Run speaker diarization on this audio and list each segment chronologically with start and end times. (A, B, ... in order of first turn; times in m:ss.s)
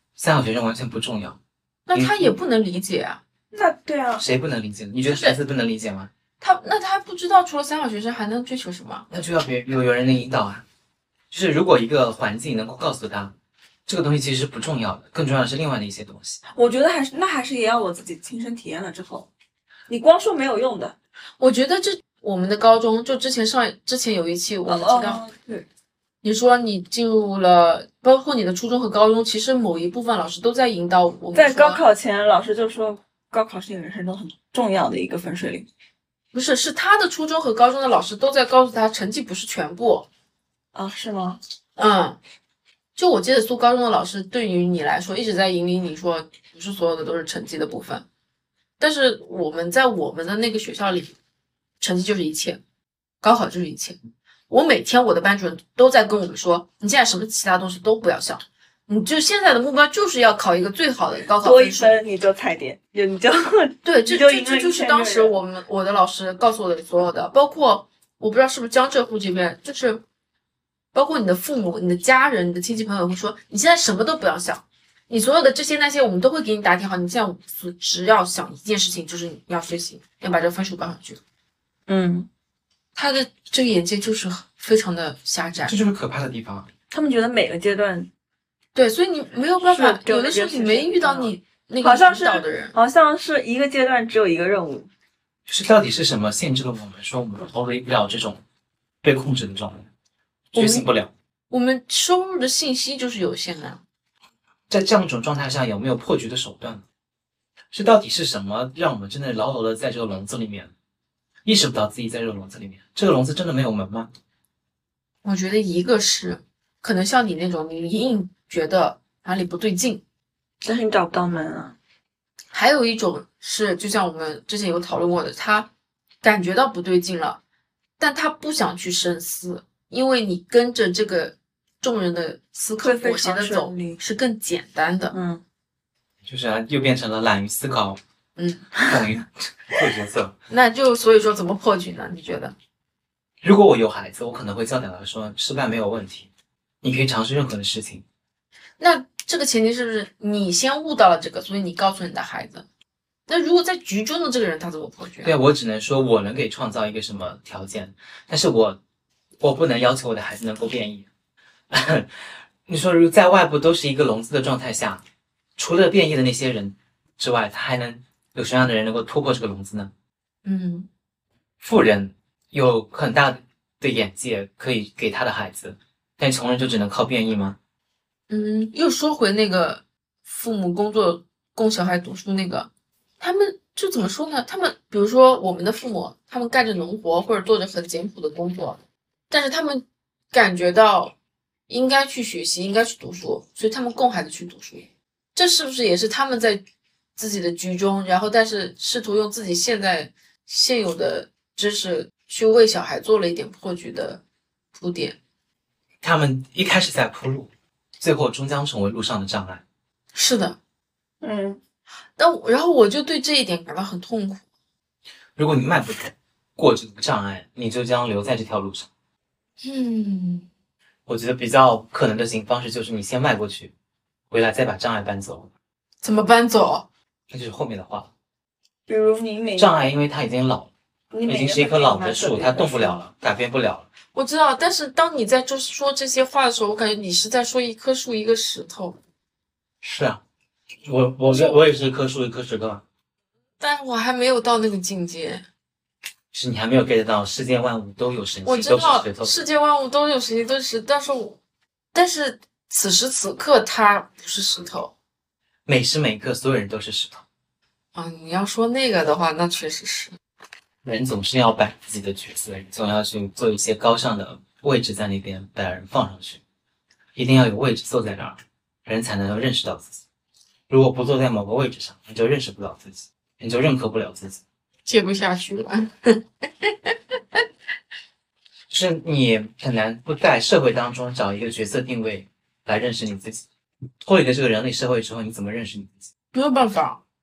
0:00.2-0:01.4 A
0:01.9-0:03.2 B
0:01.9-0:02.3 A
0:03.5-0:04.2 C
0:04.2-0:06.1 A
0:05.1-0:05.4 B
0:06.4-0:09.1 B
0:09.1-0:10.6 A
0:11.3-0:13.3 A
0:13.9-0:16.4 A
0:16.5-0:19.3 C
0:19.9-0:21.0 C
0:21.4-0:25.2 B
0:24.7-0:25.7 C
0:26.2-0:31.8 B
0:31.3-0:35.7 C
0:36.3-0:40.1 B
0:40.7-0:41.4 C
0:41.8-0:42.2 B
0:43.0-0:48.0 B
0:48.8-0:51.2 B
0:51.8-0:52.6 B
0:53.2-0:54.0 B
0:54.5-1:02.0 B
1:01.3-1:05.4 C
1:03.8-1:10.0 B
1:10.9-1:21.2 B
1:21.9-1:22.3 C
1:23.0-1:25.8 B
1:25.7-1:26.7 A
1:26.9-1:28.1 C
1:28.8-1:32.7 B
1:29.6-1:34.9 C
1:35.5-1:38.4 A
1:39.0-1:39.9 A
1:40.5-1:41.1 A
1:40.6-1:40.9 B
1:41.5-1:43.8 B
1:44.7-1:46.8 A
1:47.7-1:50.7 A
1:51.4-1:54.1 A
1:55.2-2:00.0 B
2:00.6-2:01.8 C
2:02.5-2:05.7 B
2:06.2-2:07.4 B
2:08.0-2:15.2 B
2:12.8-2:14.0 C
2:15.1-2:15.4 C
2:16.2-2:18.0 A
2:18.4-2:18.7 B
2:18.8-2:20.4 A
2:20.5-2:22.6 B
2:23.4-2:26.3 A
2:26.8-2:28.0 A
2:28.8-2:32.7 B
2:33.3-2:35.3 B
2:35.2-2:38.8 A
2:39.4-2:41.1 A
2:41.7-2:45.0 A
2:45.6-2:49.9 A
2:50.4-2:50.9 B
2:51.6-2:57.6 A
2:58.3-3:11.1 B
3:11.7-3:16.6 B
3:17.2-3:24.2 B
3:24.7-3:25.2 B
3:26.0-3:29.6 A
3:30.1-3:30.6 B
3:31.2-3:31.6 C
3:32.2-3:34.4 B
3:35.4-3:38.9 A
3:39.6-3:40.5 B
3:41.1-3:43.7 A
3:44.3-3:45.5 A
3:46.0-3:46.9 B
3:47.3-3:48.1 A
3:48.9-3:49.8 C
3:49.6-3:50.7 A
3:51.1-3:53.0 C
3:51.3-3:53.9 A
3:54.1-3:59.0 B
3:59.8-4:00.2 A
4:00.8-4:02.8 A
4:01.3-4:01.6 B
4:03.6-4:05.4 B
4:06.3-4:09.4 A
4:08.4-4:11.4 B
4:11.9-4:14.9 B
4:15.7-4:17.2 A
4:18.0-4:20.1 B
4:20.8-4:26.4 A
4:27.2-4:30.0 A
4:30.7-4:34.4 A
4:34.9-4:37.0 B
4:38.7-4:43.4 A
4:44.0-4:46.1 A
4:46.3-4:47.0 B